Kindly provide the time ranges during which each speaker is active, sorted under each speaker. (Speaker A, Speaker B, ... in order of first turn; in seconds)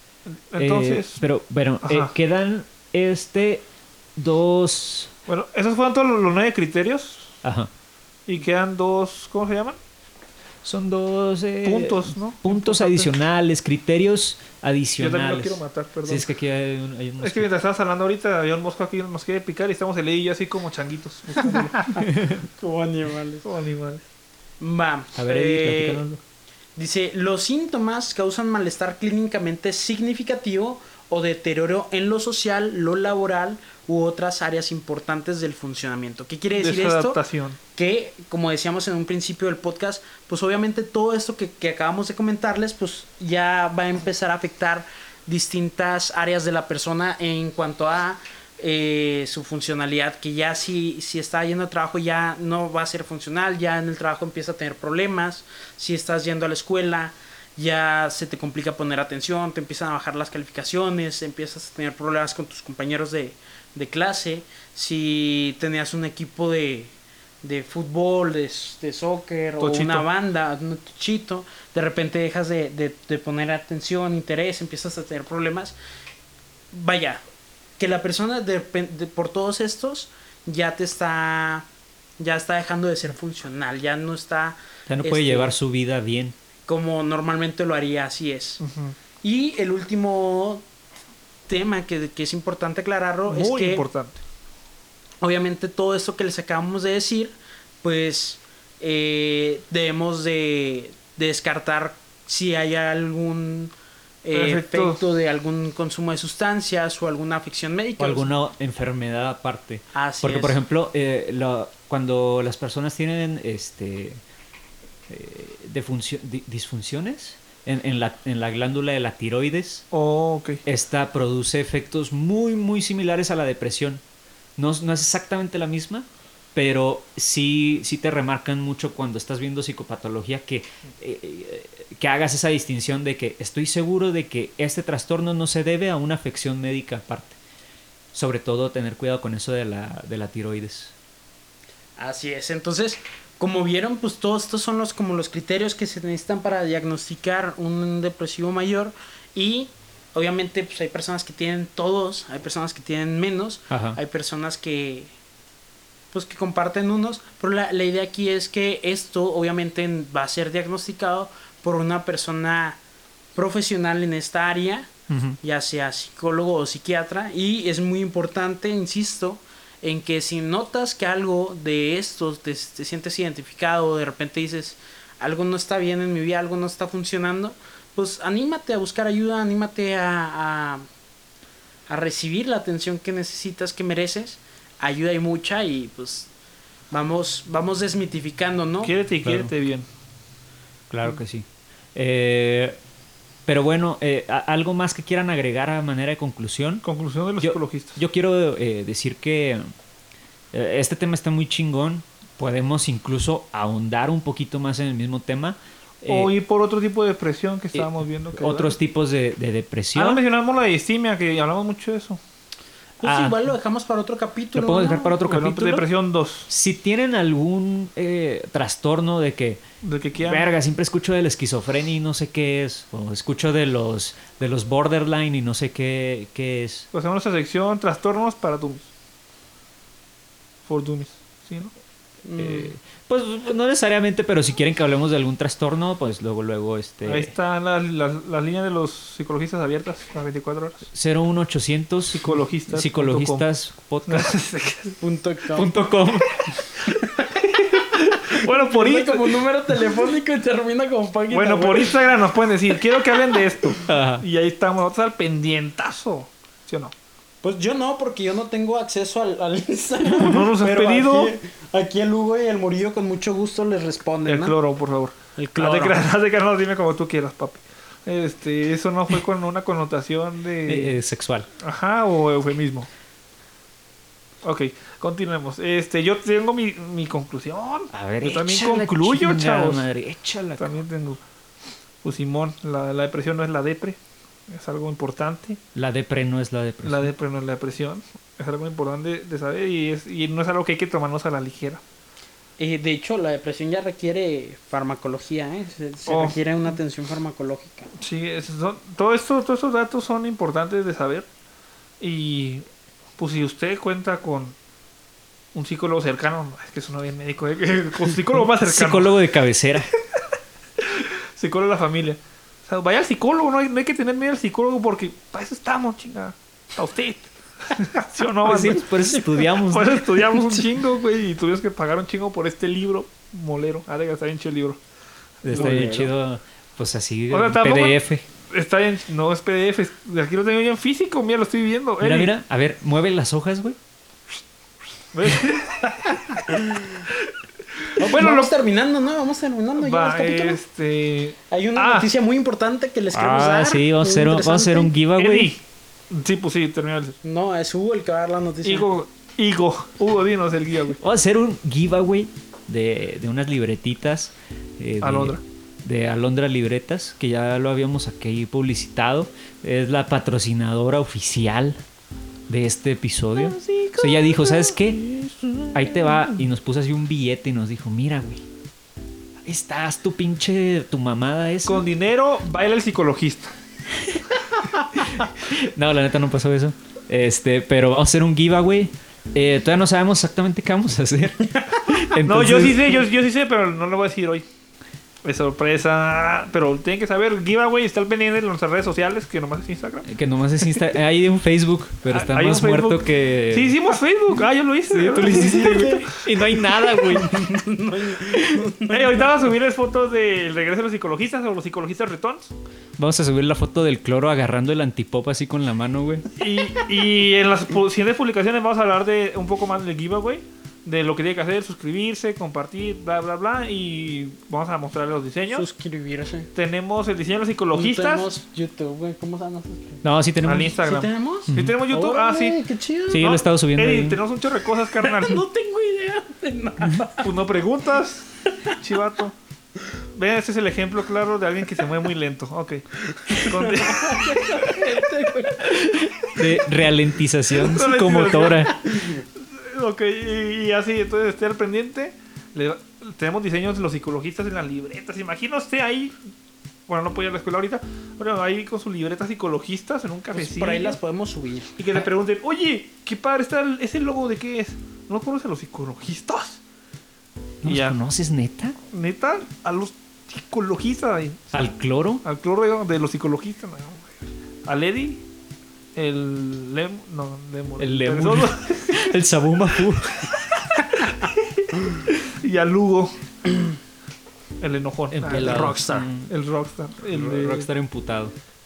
Speaker A: 0.2-1.2, 1.8-2.1, 5.3-7.3, 8.3-9.8, 11.6-13.1, 15.0-16.3, 17.2-21.9, 23.4-24.0, 36.5-37.6, 69.6-70.0, 88.6-89.0, 93.3-94.2, 104.3-105.0, 119.9-120.6, 188.8-189.8, 196.8-198.0, 206.1-208.8, 209.9-212.2, 215.2-216.5, 219.8-220.5, 226.9-228.9, 230.7-231.7, 237.0-240.9, 242.1-243.4, 244.1-245.0, 247.9-249.4, 251.3-256.9, 260.1-261.3, 264.2-270.9, 271.6-272.9, 274.4-279.9, 280.6-281.2, 282.0-284.0, 284.5-285.6, 286.8-291.8, 296.1-296.4, 298.0-301.2, 302.0-302.6, 303.2-304.5, 305.5-309.2, 310.8-318.9, 319.5-324.8, 325.4-326.1, 327.3-328.0, 328.5-332.3, 335.1-336.5, 337.8-338.5, 339.8-342.1, 345.2-347.1, 348.6-351.0, 355.0-355.4, 363.4-366.4, 371.6-373.5, 382.2-384.4, 385.2-390.1, 392.1-397.2, 398.8-402.5, 406.4-415.6, 416.5-418.3, 420.4-422.6, 423.2-425.4, 427.2-429.3, 430.1-434.8, 437.5-446.2, 446.9-451.0, 451.8-456.6, 457.6-458.0, 458.9-461.6, 462.2-465.2, 465.9-469.1, 470.8-473.2, 474.6-477.7
Speaker B: 0.6-3.6, 4.2-5.1, 7.4-7.7, 10.6-17.5, 21.9-22.4, 25.1-26.2, 84.9-86.3, 108.0-114.2, 115.1-119.8, 120.7-124.0, 124.6-137.4, 138.1-140.9, 153.7-154.0, 189.2-189.5, 190.9-192.8, 193.4-196.8, 197.4-199.7, 200.5-206.3, 207.7-210.2, 213.0-213.4, 214.5-215.9, 216.5-219.6, 220.2-226.9, 232.4-237.3, 240.9-244.3, 245.5-246.6, 253.8-254.2, 270.6-271.5, 277.9-280.7, 285.7-287.1, 308.6-309.9, 318.4-320.1, 325.4-328.2, 332.0-333.8, 343.1-345.5, 351.0-361.8, 362.5-365.0, 365.7-368.4, 369.4-371.9, 375.4-382.9, 390.1-393.8, 394.9-397.3, 398.3-398.6, 403.0-406.2, 420.0-420.7, 421.5-421.8, 423.1-424.2, 435.6-438.7, 457.6-458.8, 461.5-462.2, 467.8-470.8, 475.1-476.3, 477.0-478.3
Speaker C: 21.6-23.4, 24.6-26.0, 26.8-37.2, 37.7-75.7, 76.7-77.2, 77.8-81.7, 82.2-85.5, 86.7-88.6, 89.2-90.6, 91.5-93.9, 95.2-103.7, 104.2-108.3, 109.9-110.6, 142.0-155.1, 156.1-162.8, 163.3-180.8, 181.9-186.3, 186.9-188.9, 213.0-215.2, 232.2-232.7, 245.0-245.7, 246.8-252.0, 257.4-264.6, 265.4-266.0, 292.6-297.9, 325.5-326.0, 336.5-336.9, 338.0-340.6, 341.5-344.9, 347.2-348.9, 395.1-396.1, 397.1-399.3, 415.5-416.5, 417.7-420.0, 420.8-423.3, 425.0-427.3, 433.3-435.9, 438.8-439.2, 450.3-451.8, 475.3-476.1